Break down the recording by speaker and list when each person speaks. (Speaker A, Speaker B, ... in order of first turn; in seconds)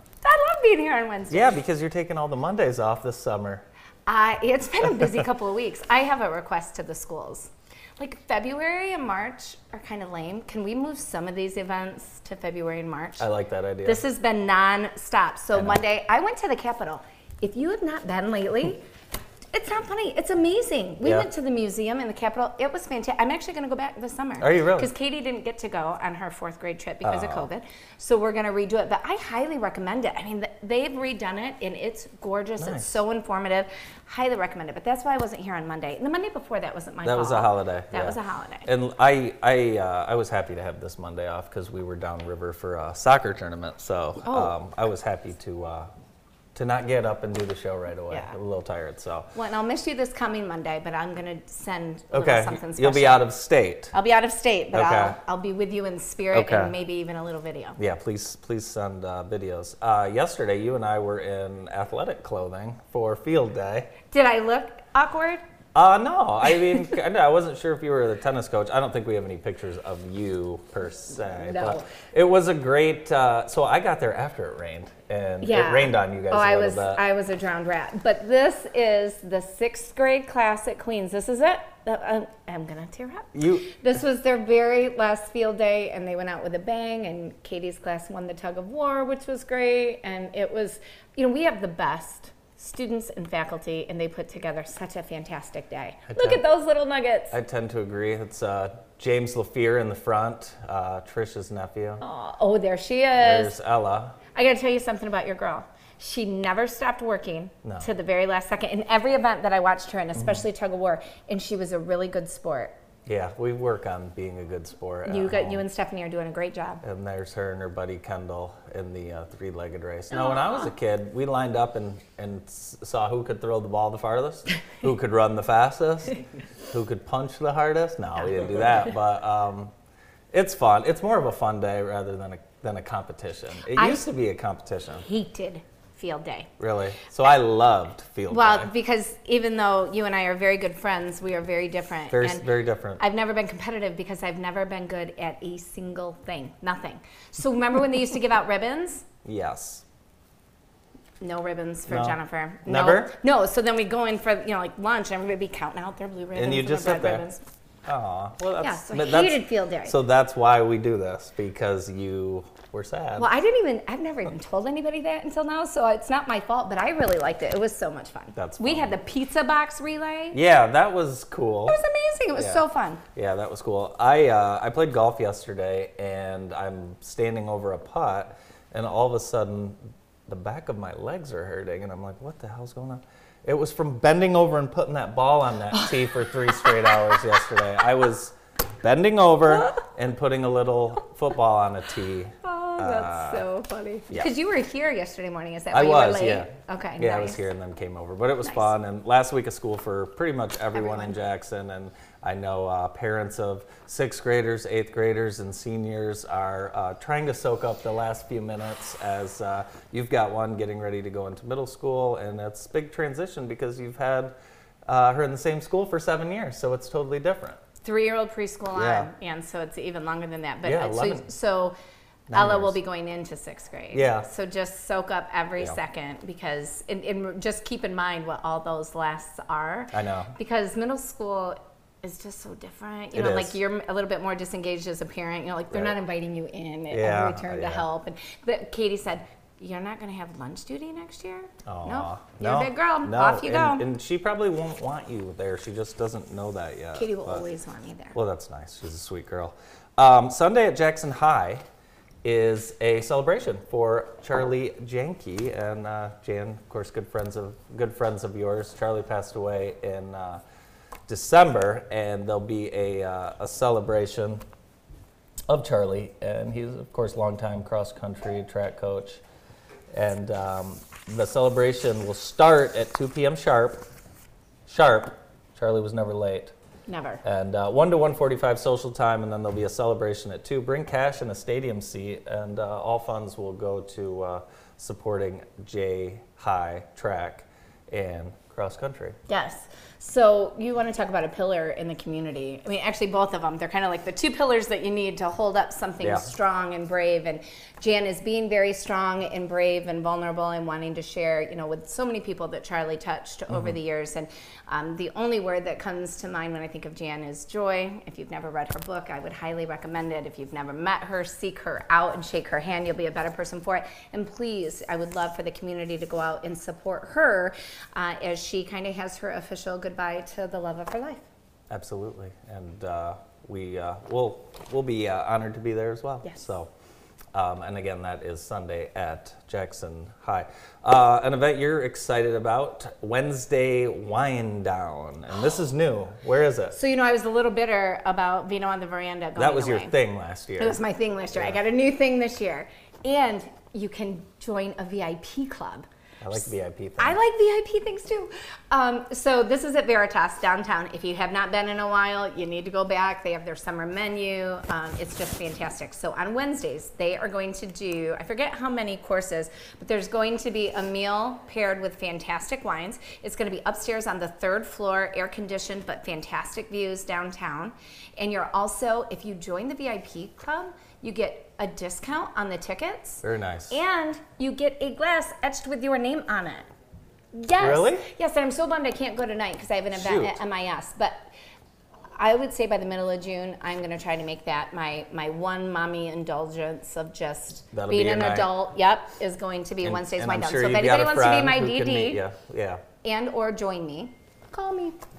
Speaker A: 0.2-1.5, 4.0-13.2, 13.8-18.8, 19.5-38.7, 44.2-44.5, 48.1-48.4, 49.3-53.2, 53.9-57.8, 64.1-65.4, 71.3-71.9, 75.4-97.3, 102.0-103.5, 104.3-112.7, 115.0-116.8, 120.1-120.7, 133.7-134.1, 135.0-136.5, 138.3-142.5, 143.0-149.0, 151.2-157.4, 158.6-159.9, 163.2-170.4, 171.7-173.0, 192.4-197.4, 198.4-198.7, 200.7-201.2, 217.8-221.8, 222.3-243.8, 246.9-248.2, 276.9-277.2, 289.3-321.2, 326.2-326.5, 336.7-339.9, 340.6-346.5, 347.0-376.6, 377.3-381.2, 382.1-392.2, 393.0-395.0
Speaker B: 1.3-3.6, 13.2-14.0, 15.5-15.8, 21.0-21.3, 24.4-24.9, 27.0-27.5, 32.6-33.0, 37.0-45.9, 46.5-49.3, 52.1-53.9, 54.7-55.2, 56.3-56.7, 57.8-63.9, 65.7-77.0, 83.3-83.7, 96.1-96.4, 97.3-102.0, 103.2-104.2, 110.1-110.4, 113.0-115.6, 116.8-129.7, 130.3-135.1, 136.6-138.7, 142.1-143.0, 149.2-149.8, 151.9-153.1, 156.3-157.2, 157.8-163.3, 168.3-168.9, 170.3-171.8, 172.3-172.6, 173.1-193.4, 195.7-214.3, 214.8-217.6, 218.7-219.1, 220.6-221.3, 222.3-222.8, 223.9-224.3, 229.9-230.3, 233.1-233.6, 236.9-237.8, 241.7-247.4, 248.1-251.6, 252.2-260.4, 261.1-264.4, 265.5-269.2, 269.9-273.9, 274.7-276.5, 277.2-289.1, 296.0-296.3, 321.7-326.7, 327.3-336.8, 339.4-340.8, 346.2-347.2, 373.2-373.8, 377.6-378.1, 379.9-380.4, 387.7-388.5, 389.8-392.8